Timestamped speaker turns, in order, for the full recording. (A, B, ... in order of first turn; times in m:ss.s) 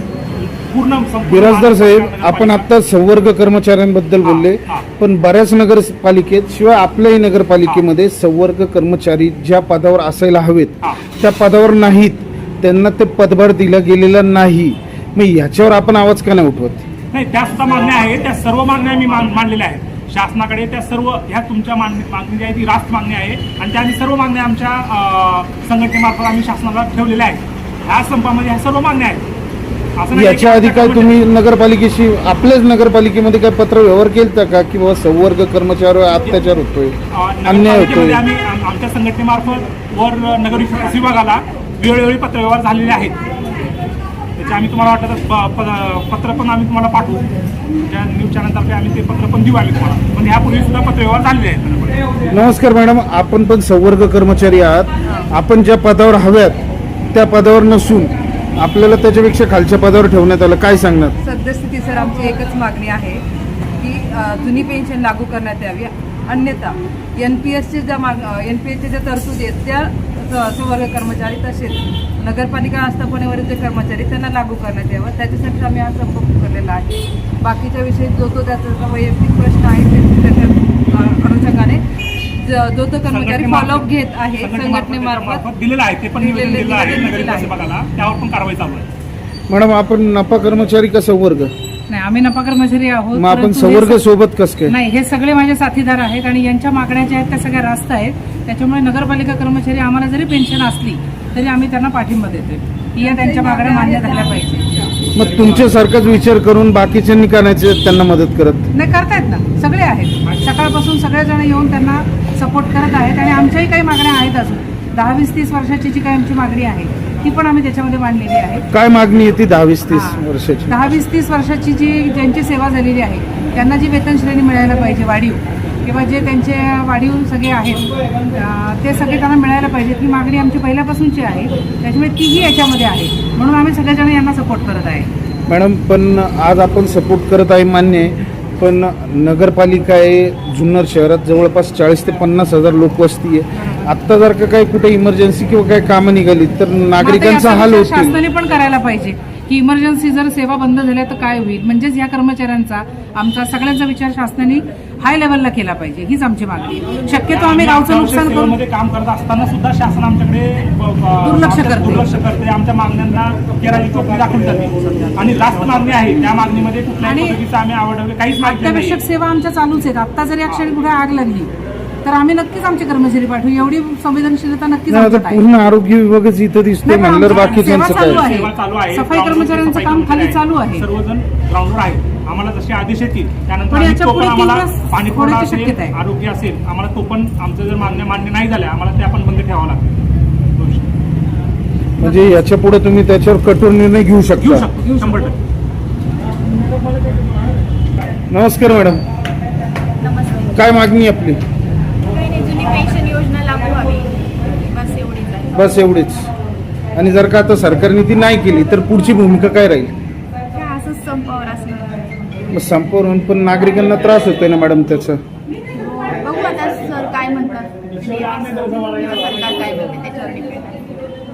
0:00.4-0:02.7 A
0:01.3-0:16.9 B
0:04.2-0:04.9 A
0:17.1-0:29.3 A
0:30.0-0:31.2 A
0:30.1-0:38.2 B
0:37.1-0:43.2 A
0:44.4-0:47.3 A
0:47.8-0:52.1 A
0:52.3-0:56.6 B
0:55.0-0:55.3 C
0:57.1-1:01.2 B
1:01.2-1:03.2 C
1:03.8-1:21.8 C
1:22.4-1:25.5 C
1:23.1-1:28.9 A
1:26.2-1:27.5 C
1:29.5-1:31.5 B
1:31.9-1:34.0 D
1:33.2-1:34.8 B
1:34.6-1:44.6 D
1:43.0-1:44.9 C
1:45.2-1:48.7 B
1:48.7-1:58.6 D
1:58.7-2:00.8 B
1:59.9-2:15.1 D
2:15.5-2:28.2 B
2:27.0-2:38.6 D
2:37.3-2:49.0 A
2:41.2-2:42.1 D
2:47.0-2:47.4 D
2:48.4-2:51.5 D
2:52.0-2:55.4 D
2:54.9-2:58.3 B
2:56.8-3:00.9 D
2:57.2-3:10.0 A
3:03.7-3:06.0 D
3:10.6-3:10.9 A
3:12.0-3:14.7 B
3:12.0-3:12.4 D
3:14.4-3:15.4 A
3:14.9-3:15.2 D
3:18.3-3:19.0 B
3:20.0-3:20.7 E
3:20.5-3:21.4 B
3:22.1-3:25.7 E
3:25.5-3:26.3 B
3:27.0-3:29.9 B
3:30.5-3:32.2 E
3:32.5-3:35.2 B
3:35.6-3:40.9 E